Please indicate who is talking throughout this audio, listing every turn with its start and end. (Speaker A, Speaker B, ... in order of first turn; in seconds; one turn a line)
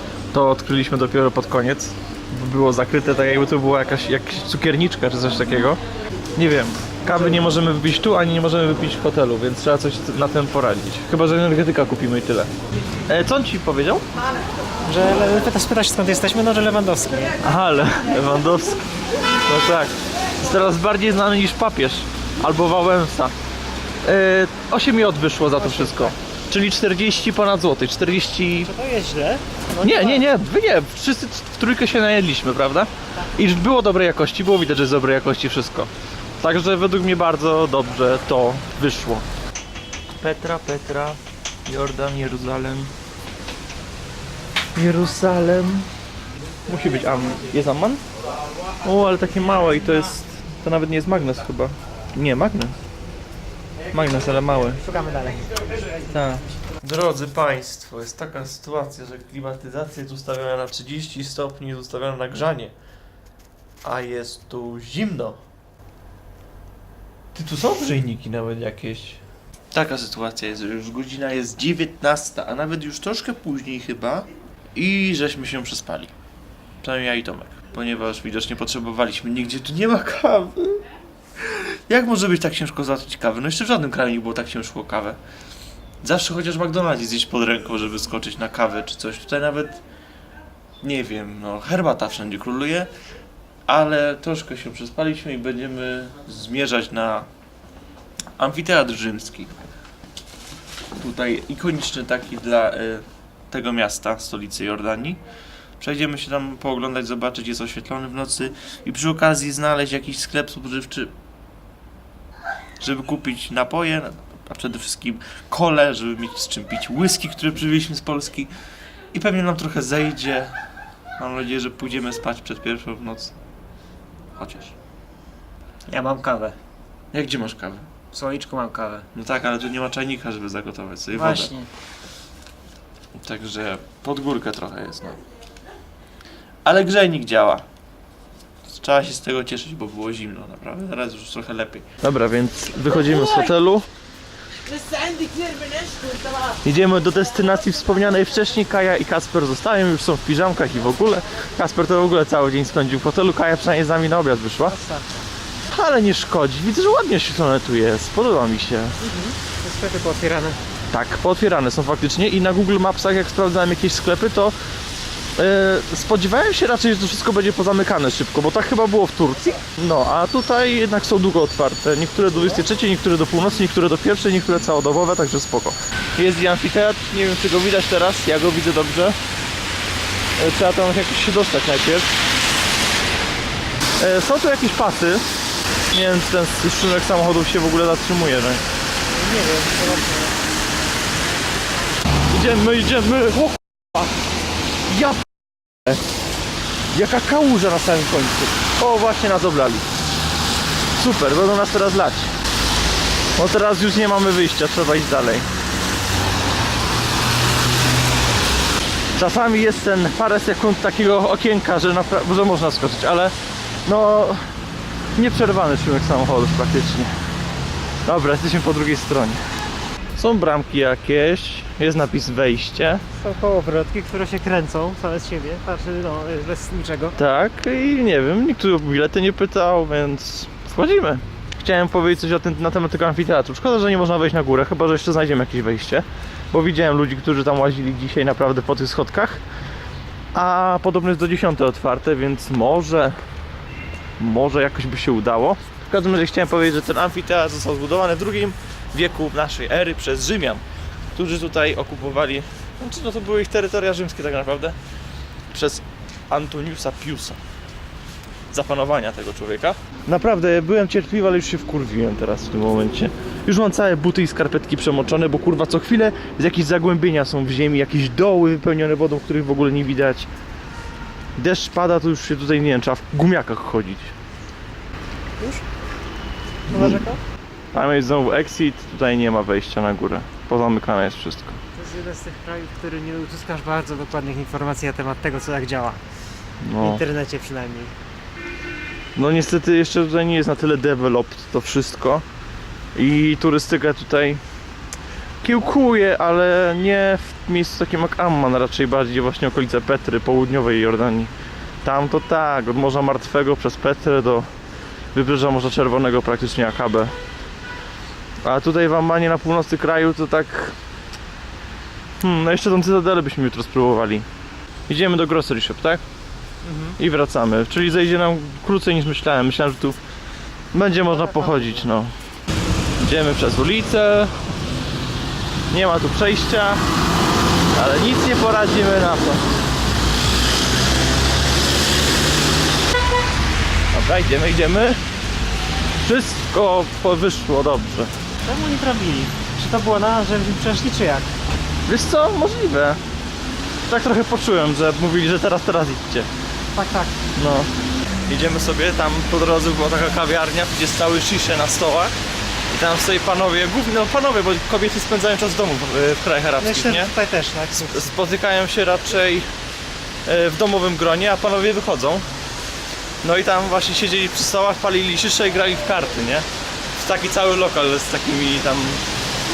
Speaker A: 0.3-5.8
Speaker A: 6.3-12.5
Speaker A: 13.1-14.0
Speaker B: 14.8-17.4
Speaker A: 17.4-18.8
Speaker A: 19.4-23.3
Speaker A: 24.0-28.7
Speaker B: 25.6-26.1
Speaker B: 28.6-30.3
Speaker A: 29.8-39.2
Speaker A: 40.2-42.9
Speaker A: 44.8-45.9
Speaker A: 46.6-48.0
Speaker A: 48.8-52.8
Speaker A: 53.9-54.8
Speaker B: 54.5-55.6
Speaker A: 56.1-62.7
Speaker A: 63.8-65.4
Speaker A: 67.3-69.2
Speaker A: 69.7-76.1
Speaker A: 76.8-80.8
Speaker A: 81.4-85.2
Speaker A: 86.0-89.8
Speaker A: 90.8-92.9
Speaker A: 93.7-97.3
Speaker A: 98.4-99.5
Speaker A: 100.9-105.2
Speaker A: 105.8-111.1
Speaker A: 112.8-118.5
Speaker A: 119.1-120.6
Speaker A: 121.2-123.4
Speaker A: 124.3-124.7
Speaker B: 125.9-126.6
Speaker A: 127.1-127.9
Speaker B: 128.1-129.1
Speaker A: 129.1-131.5
Speaker B: 131.1-131.7
Speaker A: 133.2-135.2
Speaker A: 136.6-137.7
Speaker A: 138.7-143.9
Speaker B: 144.7-146.4
Speaker A: 146.4-154.8
Speaker B: 154.6-155.3
Speaker A: 155.7-159.0
Speaker B: 159.0-160.6
Speaker A: 160.9-164.5
Speaker A: 165.4-179.2
Speaker A: 180.4-182.1
Speaker A: 184.0-185.3
Speaker A: 185.9-188.6
Speaker B: 189.1-190.4
Speaker A: 192.3-194.1
Speaker A: 194.9-195.3
Speaker A: 196.9-199.9
Speaker A: 201.0-202.3
Speaker A: 203.4-205.5
Speaker A: 209.2-213.3
Speaker A: 213.8-214.5
Speaker A: 215.2-217.1
Speaker A: 218.0-219.4
Speaker A: 220.2-223.0
Speaker B: 223.1-227.2
Speaker A: 227.2-239.4
Speaker A: 240.3-243.2
Speaker A: 244.2-250.6
Speaker A: 251.1-254.8
Speaker A: 255.5-257.4
Speaker A: 258.5-270.3
Speaker A: 271.4-274.1
Speaker B: 275.4-275.6
Speaker B: 276.7-277.2
Speaker A: 276.7-277.0
Speaker A: 277.7-281.6
Speaker B: 281.7-286.0
Speaker A: 286.6-287.0
Speaker B: 286.8-287.9
Speaker A: 289.1-292.2
Speaker A: 292.9-294.4
Speaker A: 295.4-301.3
Speaker A: 301.8-304.5
Speaker A: 305.1-307.1
Speaker A: 308.4-310.8
Speaker A: 312.2-314.2
Speaker A: 314.9-316.0
Speaker B: 316.6-317.0
Speaker A: 317.0-320.0
Speaker A: 320.7-322.1
Speaker B: 321.1-321.8
Speaker A: 323.0-324.4
Speaker A: 325.7-326.8
Speaker A: 327.7-329.4
Speaker A: 333.9-335.0
Speaker A: 336.0-338.1
Speaker B: 338.4-341.4
Speaker A: 341.9-343.0
Speaker A: 343.9-346.3
Speaker B: 346.7-347.2
Speaker A: 347.4-347.7
Speaker A: 348.3-352.1
Speaker A: 352.7-357.1
Speaker B: 356.6-358.1
Speaker A: 357.8-359.5
Speaker A: 360.2-362.2
Speaker A: 363.2-366.4
Speaker A: 367.0-369.0